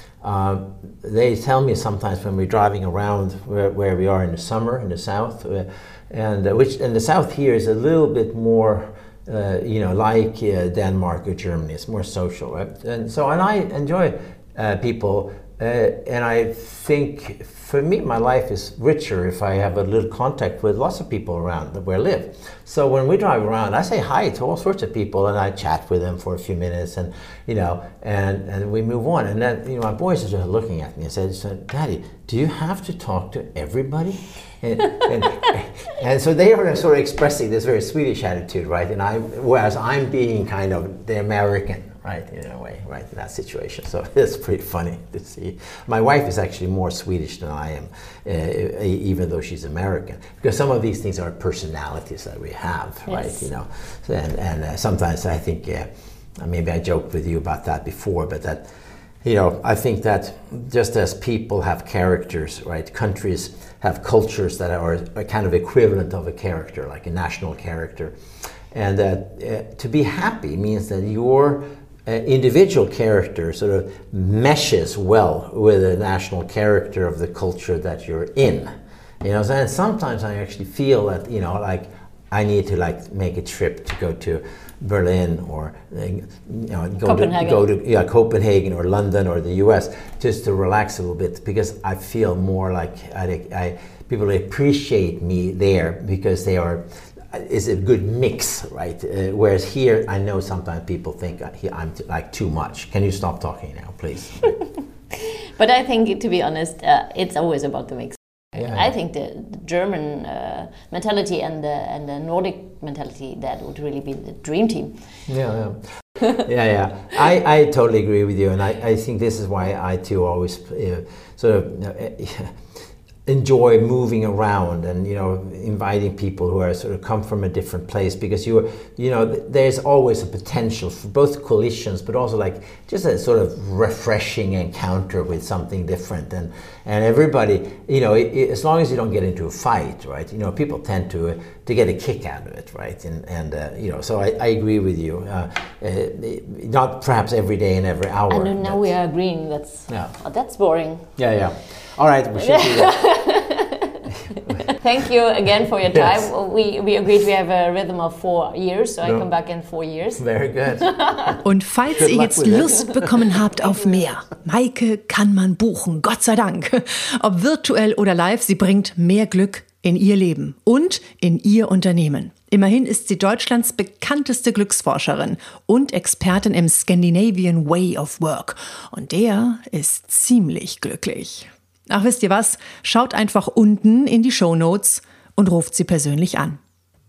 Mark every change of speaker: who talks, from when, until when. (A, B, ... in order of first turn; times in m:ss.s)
0:00.2-0:58.7 A
0:53.1-0:53.5 B
0:59.2-1:08.1 A
1:08.7-1:44.5 A
1:27.0-1:27.6 B
1:45.1-1:55.1 B
1:48.6-1:48.9 A
1:55.3-2:02.6 A
2:03.3-2:28.9 A
2:28.3-2:31.1 B
2:29.9-2:30.1 A
2:31.2-2:33.0 A
2:32.4-2:41.4 B
2:34.2-2:34.6 A
2:35.9-2:36.2 A
2:40.2-2:41.4 A
2:41.4-3:06.6 C
2:41.9-2:43.2 A